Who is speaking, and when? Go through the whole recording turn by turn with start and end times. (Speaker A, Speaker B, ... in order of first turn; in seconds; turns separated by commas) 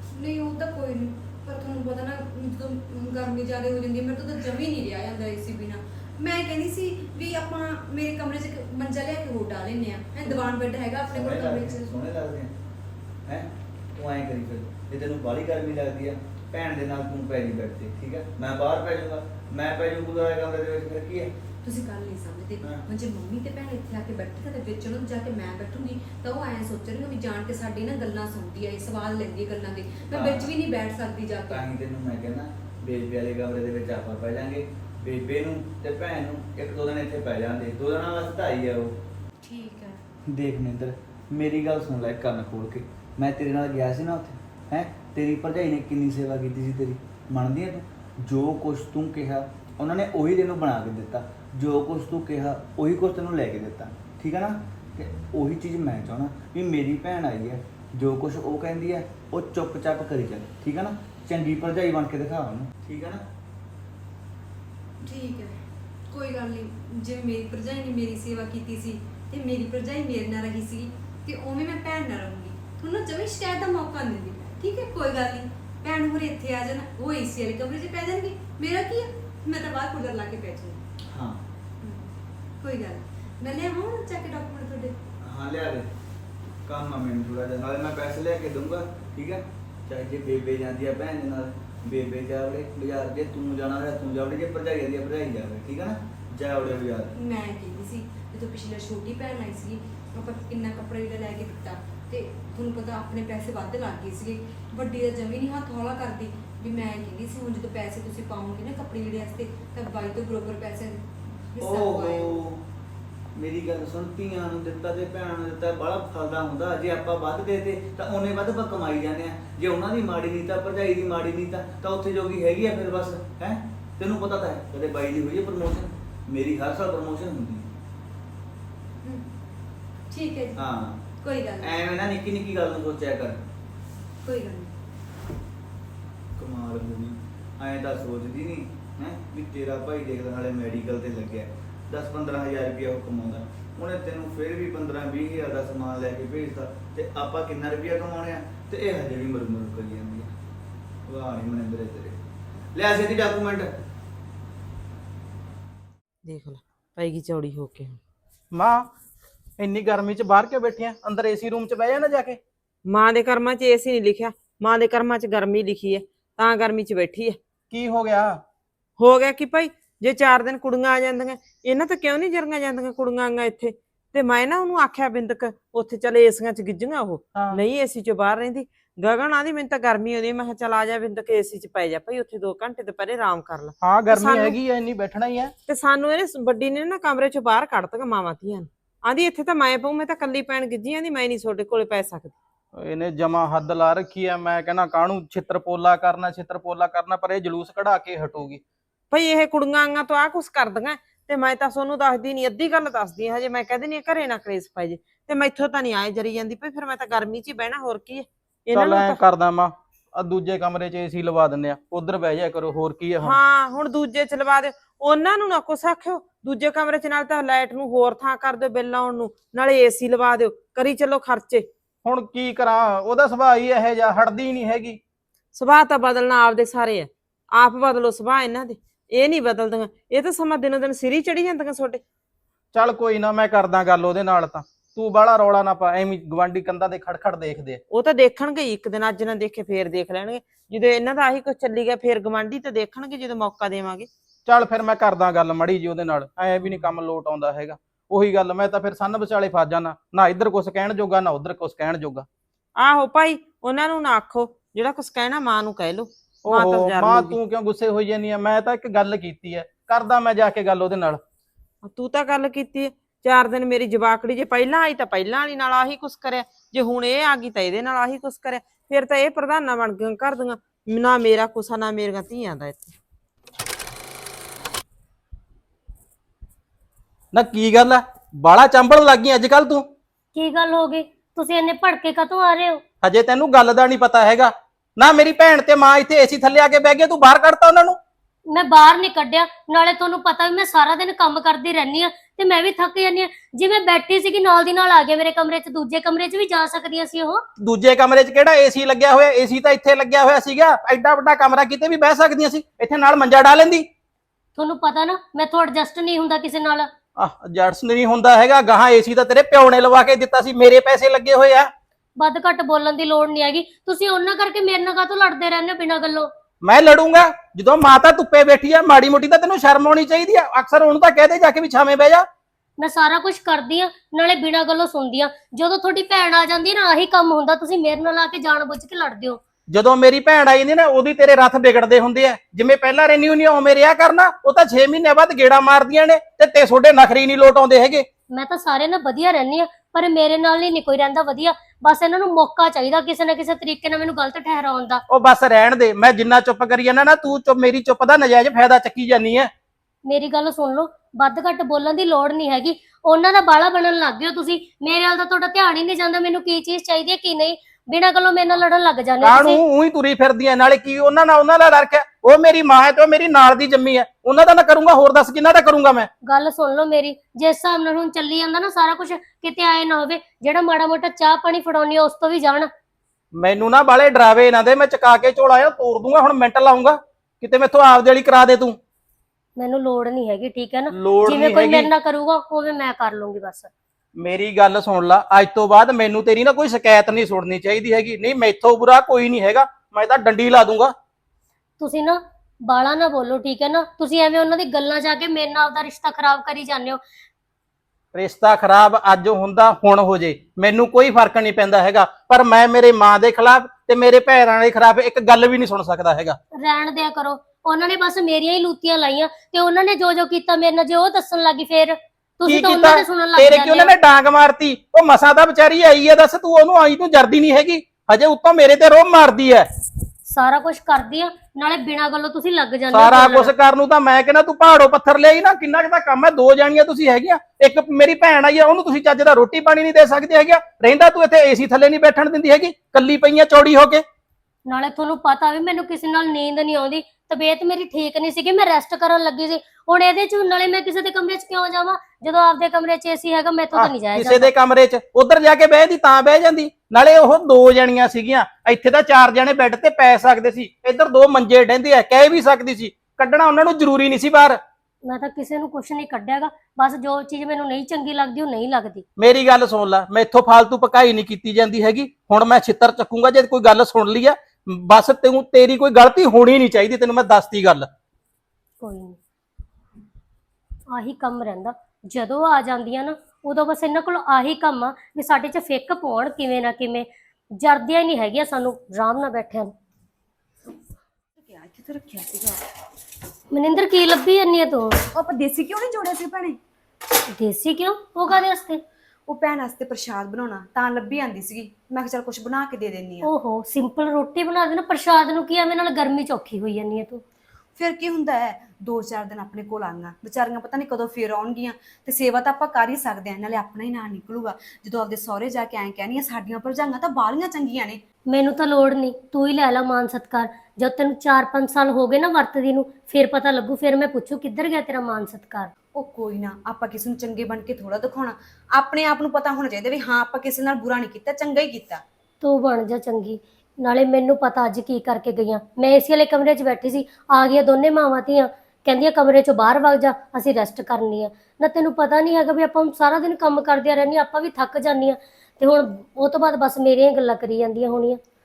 Speaker A: 0.1-11.9, Speaker B: 10.2-10.6, Speaker B: 11.1-12.5, Speaker B: 13.3-21.3, Speaker A: 21.6-31.7, Speaker B: 30.1-30.5, Speaker B: 31.5-39.0, Speaker A: 39.4-40.0, Speaker B: 40.2-63.2, Speaker A: 65.0-80.8, Speaker B: 81.0-81.4, Speaker A: 81.8-85.0, Speaker B: 85.2-85.9, Speaker B: 86.7-97.2, Speaker A: 97.2-112.4, Speaker B: 111.6-112.7, Speaker B: 113.3-127.7, Speaker A: 129.0-129.3, Speaker A: 130.1-130.6, Speaker B: 130.6-131.0, Speaker A: 131.2-131.7, Speaker B: 131.6-133.4, Speaker A: 134.2-134.7, Speaker B: 136.4-150.3, Speaker B: 151.1-152.2, Speaker B: 152.7-153.7, Speaker C: 156.2-158.0, Speaker D: 158.5-158.9, Speaker D: 159.6-162.4, Speaker C: 162.9-167.4, Speaker D: 167.7-168.4, Speaker C: 169.0-184.6, Speaker D: 177.3-177.6, Speaker D: 183.8-185.5, Speaker C: 185.7-192.4, Speaker D: 192.8-198.6, Speaker C: 199.1-209.2, Speaker D: 208.8-213.4, Speaker C: 213.2-221.7, Speaker D: 222.1-225.0, Speaker C: 225.6-232.0, Speaker D: 232.7-237.8, Speaker C: 237.9-244.1, Speaker D: 244.5-252.3, Speaker C: 252.8-257.4, Speaker D: 256.5-261.2, Speaker C: 261.9-273.0, Speaker D: 277.3-279.9, Speaker E: 280.4-282.8, Speaker D: 283.0-288.0, Speaker E: 288.5-297.4, Speaker D: 297.6-303.9, Speaker E: 304.6-306.9, Speaker D: 307.2-311.7, Speaker E: 312.2-316.3, Speaker D: 316.6-322.3, Speaker E: 322.8-329.4, Speaker D: 329.7-338.1, Speaker E: 338.3-345.0, Speaker D: 345.1-349.5, Speaker E: 350.1-359.6, Speaker D: 359.2-366.1, Speaker E: 366.2-372.7, Speaker D: 373.4-378.8, Speaker E: 379.6-383.7, Speaker D: 380.9-381.9, Speaker D: 384.2-390.9, Speaker E: 391.8-397.0, Speaker D: 398.1-406.4, Speaker E: 406.6-413.9, Speaker D: 412.4-419.7, Speaker E: 420.3-423.5, Speaker D: 422.9-434.0, Speaker E: 434.7-444.5, Speaker D: 443.7-454.6, Speaker E: 455.1-459.0, Speaker D: 459.2-467.9, Speaker E: 468.8-469.2, Speaker E: 470.9-479.7, Speaker A: 481.4-482.6, Speaker E: 483.5-485.0, Speaker A: 485.1-486.6, Speaker E: 487.3-488.8, Speaker A: 489.3-493.3, Speaker E: 493.2-497.2, Speaker A: 497.8-508.0, Speaker E: 508.3-515.7, Speaker A: 516.0-522.0, Speaker E: 522.4-538.2